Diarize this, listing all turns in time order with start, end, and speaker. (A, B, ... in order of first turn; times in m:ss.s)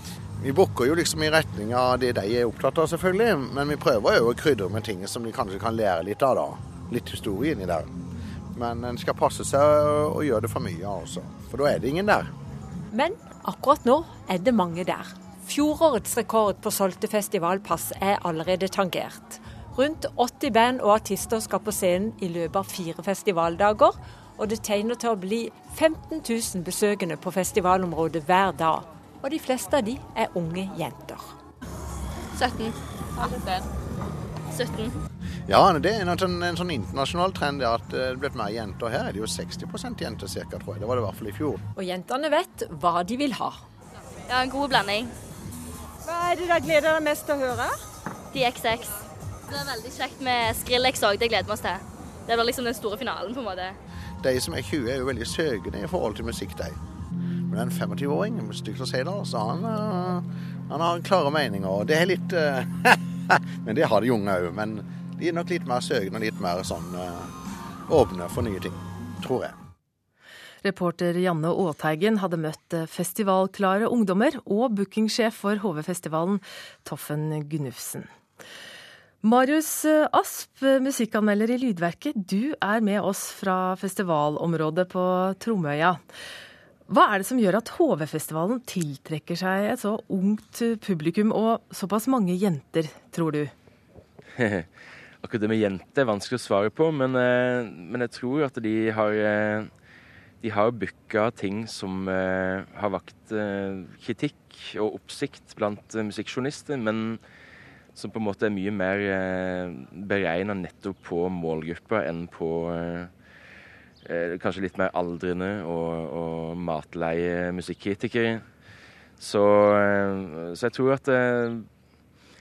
0:00.4-0:07.9 A
0:08.5-0:12.3 A
0:12.9-0:31.3 B
0:32.4-0:33.6 C
0:34.5-0:35.0 C
0:35.5-0:41.6 A
0:41.8-0:43.6 B
0:44.3-0:45.1 C
0:46.0-0:47.8 B
0:48.3-0:49.0 C
0:49.5-0:53.8 C
0:54.2-0:56.8 A
0:57.5-1:07.3 A
1:07.9-1:09.5 A
1:10.6-1:18.1 D
1:19.2-1:26.0 D
1:26.9-1:33.5 D
1:34.4-1:34.6 E
1:35.2-1:39.7 E
1:40.4-1:47.2 E
1:47.9-1:53.1 E
1:54.0-1:58.4 E
1:59.2-2:01.7 E